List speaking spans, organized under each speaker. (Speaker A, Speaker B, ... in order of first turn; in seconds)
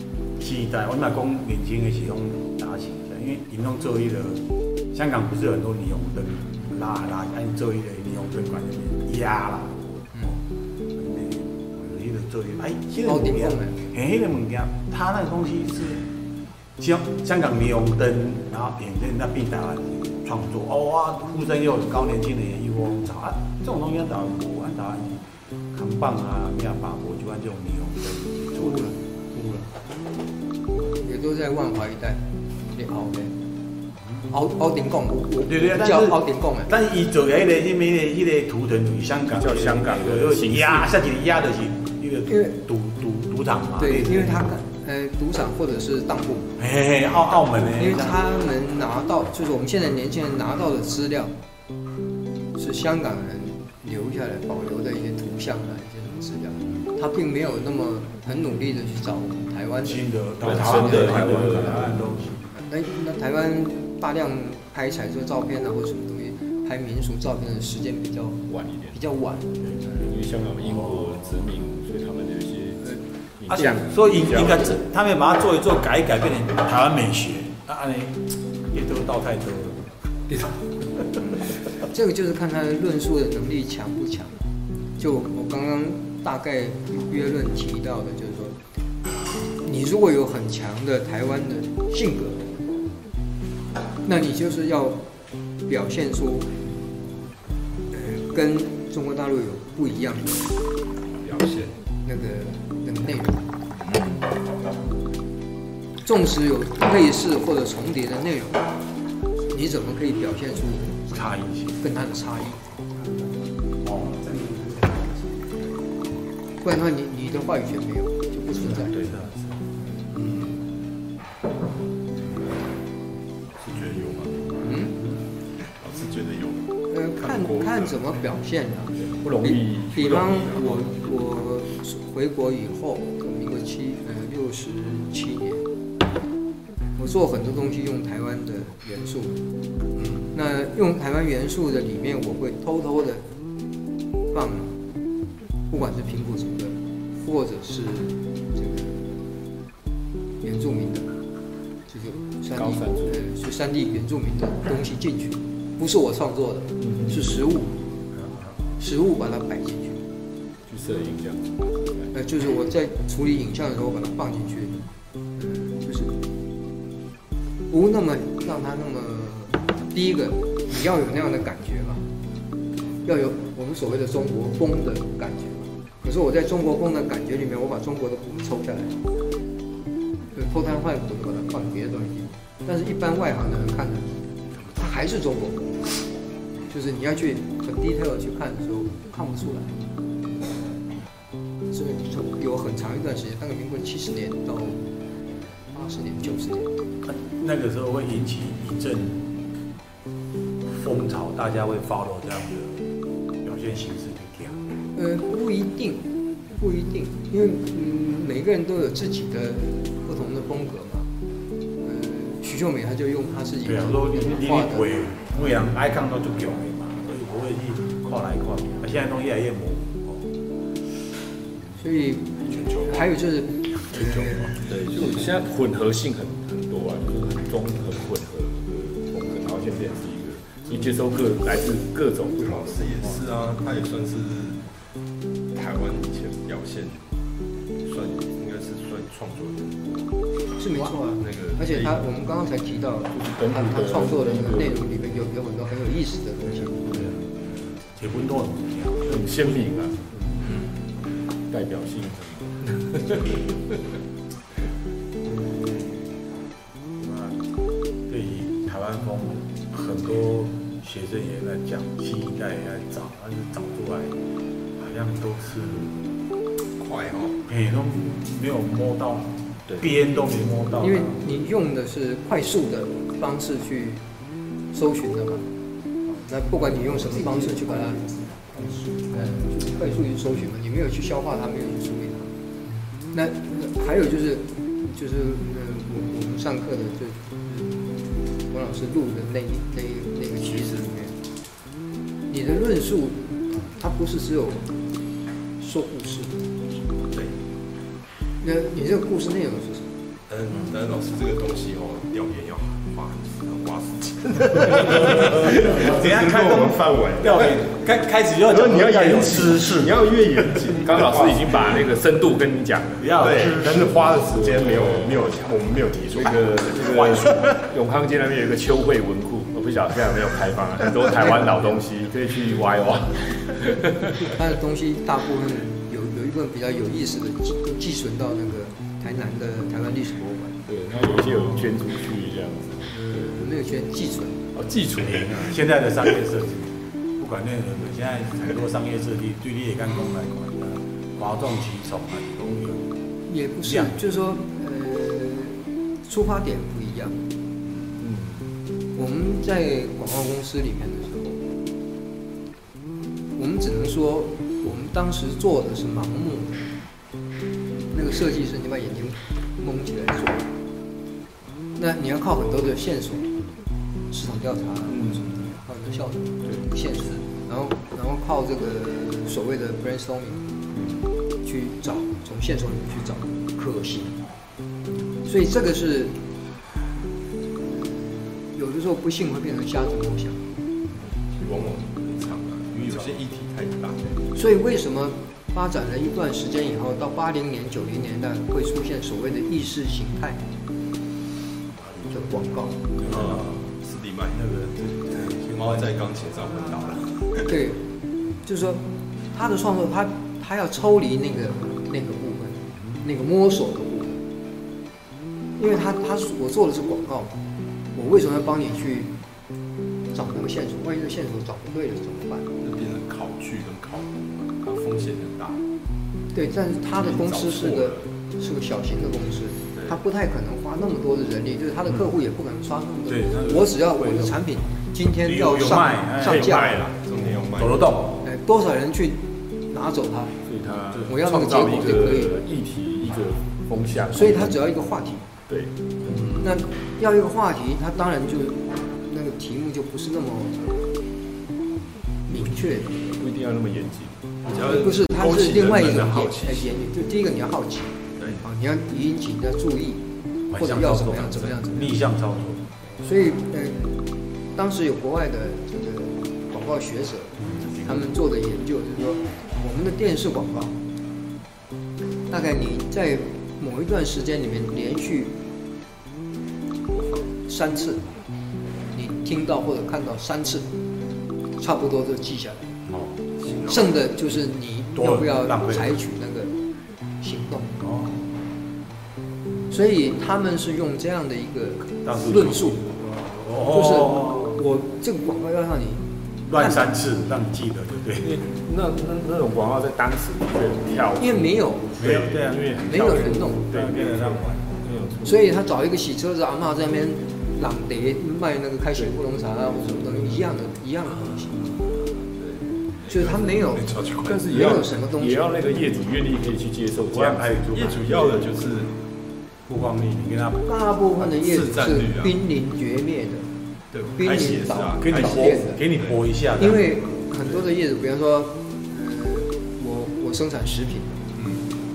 Speaker A: 0.4-10.4, 10.9-16.1, 16.8-29.0, 35.4-44.5, 46.6-48.2, 59.8-62.5, 69.6-70.1, 70.6-71.3, 73.5-78.2, 78.7-79.9, 111.1-111.8, 113.0-113.3, 113.8-115.1, 118.6-119.4, 158.2-158.6, 197.1-199.3, 200.7-202.8, 203.4-204.6, 213.7-220.3, 246.8-247.2, 248.0-249.6, 255.2-256.1, 257.0-257.4, 258.1-264.2, 264.8-266.1, 267.5-271.3, 305.0-310.1, 313.0-314.0, 335.0-342.9, 343.6-344.0, 393.1-393.7, 394.3-396.0, 423.1-423.7, 425.2-426.9, 427.4-428.2, 450.5-452.6, 457.4-458.1, 472.9-473.2, 475.0-476.0, 477.8-478.3, 482.0-484.6, 486.4-488.4, 492.0-494.9, 507.1-508.5, 509.7-510.7, 514.9-517.6
Speaker B: 10.1-10.4, 13.0-13.8, 28.6-29.5, 30.7-32.2, 32.7-33.3, 34.3-36.7, 42.3-42.5, 43.8-46.6, 47.6-51.4, 52.5-61.7, 62.5-69.5, 80.3-81.0, 81.8-84.4, 85.0-88.6, 89.5-92.5, 94.0-95.0, 95.7-96.5, 97.9-100.5, 102.0-103.5, 106.0-108.6, 109.5-111.2, 111.8-112.6, 116.6-119.0, 124.6-125.0, 126.9-135.7, 137.0-139.5, 140.3-143.3, 144.3-144.8, 145.7-149.4, 150.4-151.1, 151.9-157.8, 158.8-160.0, 162.1-166.2, 167.7-172.1, 173.0-179.0, 180.3-185.9, 186.7-189.8, 191.7-194.8, 195.7-196.7, 204.9-211.1, 211.8-214.9, 221.8-224.6, 240.6-246.8, 270.8-274.0, 274.7-275.5, 276.1-278.1, 278.9-282.3, 283.1-291.2, 292.3-294.7, 295.6-296.5, 298.4-299.9, 324.2-330.6, 332.9-334.4, 343.3-347.2, 348.9-351.4, 353.4-356.6, 357.9-360.5, 361.8-363.3, 364.1-370.5, 371.4-374.2, 375.2-376.2, 377.5-380.4, 384.3-390.4, 392.0-392.8, 397.5-397.8, 398.4-404.2, 405.6-407.3, 407.9-409.1, 410.1-412.5, 416.3-426.8, 428.2-430.3, 431.0-432.3, 434.1-435.3, 436.4-440.7, 442.3-443.0, 444.6-450.0, 450.6-452.0, 453.0-460.8, 462.3-465.4, 467.4-468.0, 468.9-470.7, 471.6-472.6, 473.6-476.6, 477.2-477.8, 479.7-482.8, 483.6-486.9, 491.2-492.0, 492.8-493.7, 495.2-501.7, 503.1-503.9, 504.5-505.5, 510.6-513.5, 514.2-515.8, 516.6-521.2
Speaker C: 39.3-41.0, 60.4-62.0, 68.5-69.0, 69.9-74.8, 128.9-130.9, 152.6-153.2, 156.8-157.3, 160.7-162.2, 224.7-233.2, 243.1-244.8, 249.1-250.7, 251.5-253.3, 310.8-315.4, 316.1-324.4, 330.7-333.4, 334.5-335.6, 348.0-348.6, 364.9-365.3, 366.4-366.7, 370.7-371.1, 393.0-393.3, 424.0-424.4, 430.5-434.6, 435.5-436.3, 443.2-444.2, 488.2-495.4, 500.0-500.6, 504.2-507.6
Speaker D: 101.1-101.7, 120.1-120.6, 123.6-124.8, 125.6-128.0, 139.9-140.3, 222.4-223.2, 223.9-225.3, 232.4-234.6, 235.6-237.1, 237.8-240.1, 240.7-242.0, 266.8-267.4, 297.1-297.4, 300.3-307.7, 308.5-312.0, 313.2-317.6, 381.4-384.2, 393.1-394.4, 395.1-397.6, 412.6-415.6, 417.0-418.0, 426.2-428.0, 436.1-436.5, 444.4-446.8, 448.2-448.4, 466.9-467.3, 473.4-474.1, 501.2-504.8, 507.7-508.9, 511.2-512.4, 513.9-516.2, 521.4-521.7